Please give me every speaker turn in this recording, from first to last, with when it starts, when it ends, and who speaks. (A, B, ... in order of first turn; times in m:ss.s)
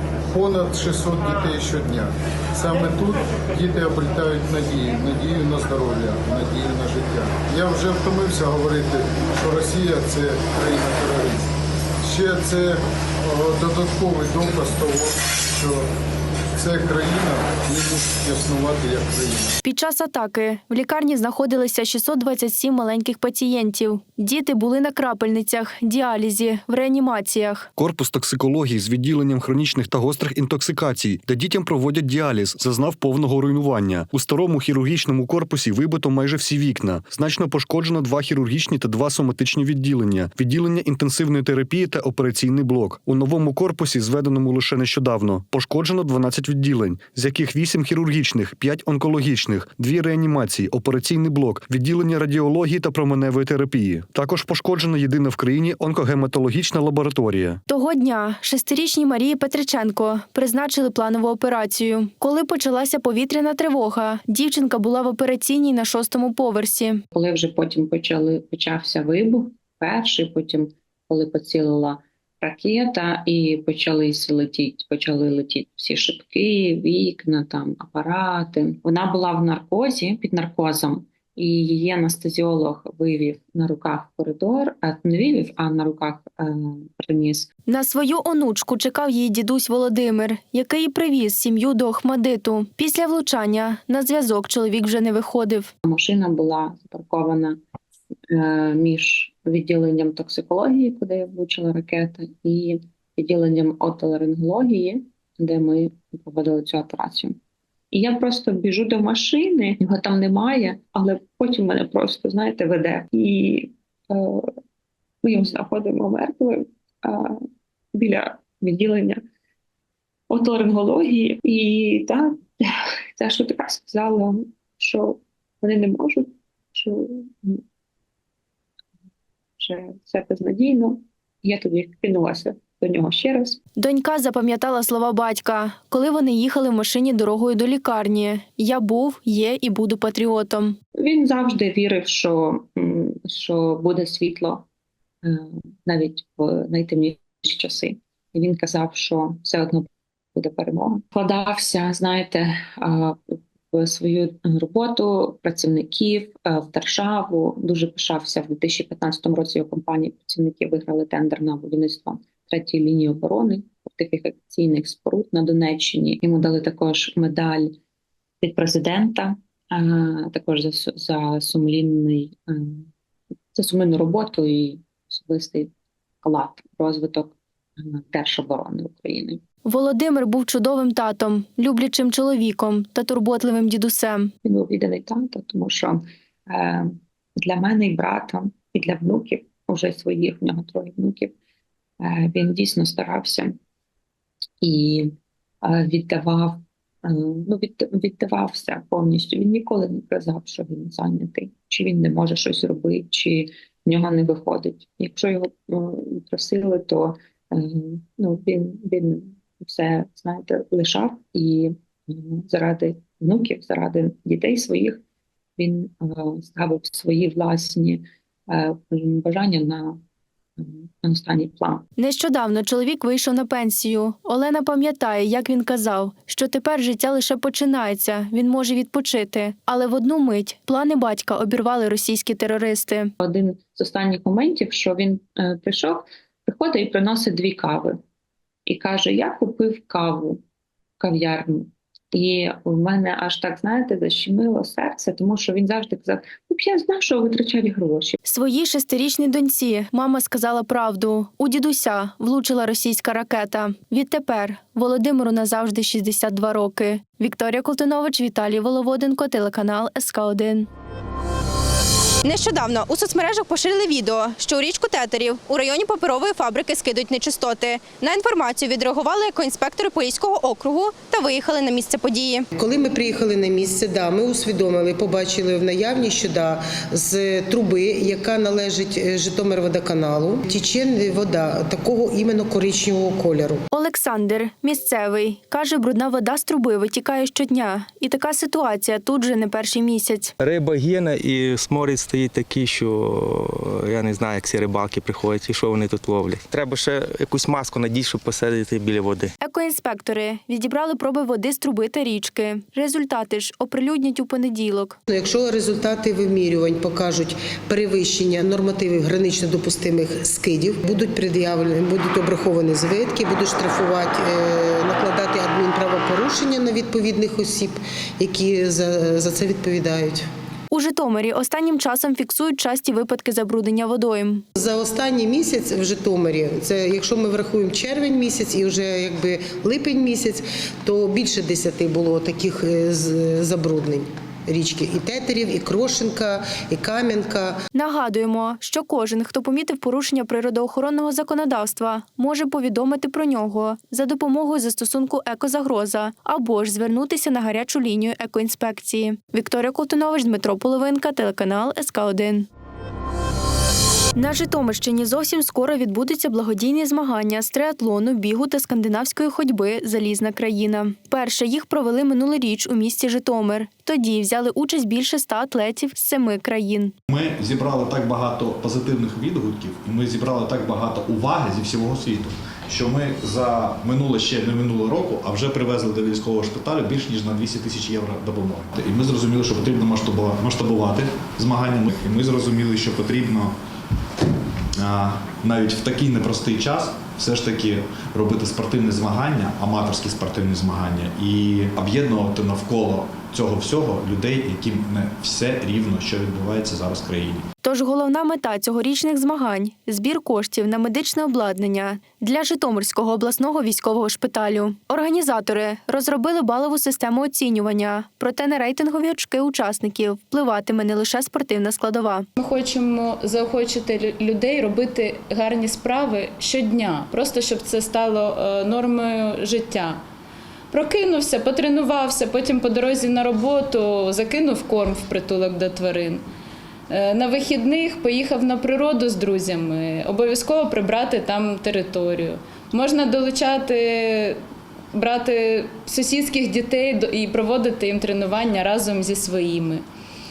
0:00.3-0:11.5 A
0:12.0-0:15.9 A
0:16.5-0:19.5 A
0:19.6-0:27.7 B
0:27.8-0:57.6 C
0:57.7-1:07.0 B
1:07.1-1:27.5 D
1:27.7-1:35.7 B
1:35.8-1:37.6 D
1:38.3-1:47.4 D
1:47.9-1:54.4 D
1:55.2-1:57.4 D
1:57.9-1:59.2 D
2:00.3-2:02.6 D
2:03.2-2:07.6 D
2:09.6-2:13.6 D
2:13.8-2:20.8 B
2:20.9-2:24.7 D
2:25.2-2:47.8 D
2:48.4-2:52.9 D
2:53.5-2:55.7 D
2:56.2-2:59.4 D
2:59.7-3:04.3 B
3:04.4-3:11.3 D
3:12.0-3:13.6 D
3:14.6-3:35.0 D
3:35.6-3:40.0 D
3:40.6-3:41.8 D
3:42.0-3:53.1 B
3:53.2-3:58.0 D
3:58.6-4:00.4 D
4:01.0-4:08.2 D
4:08.2-4:20.7 B
4:22.2-4:32.4 E
4:32.5-4:43.6 F
4:43.7-4:50.3 B
4:50.4-4:59.3 G
4:59.4-5:05.0 B
5:05.1-5:20.2 F
5:20.7-5:24.4 B
5:24.6-5:37.6 F
5:37.7-5:52.5 B
5:54.1-6:06.9 B
6:07.1-6:23.6 H
6:24.8-6:37.4 H
6:37.6-6:52.3 B
6:52.4-7:00.0 I
7:00.7-7:06.2 I
7:06.9-7:14.4 I
7:14.9-7:19.8 I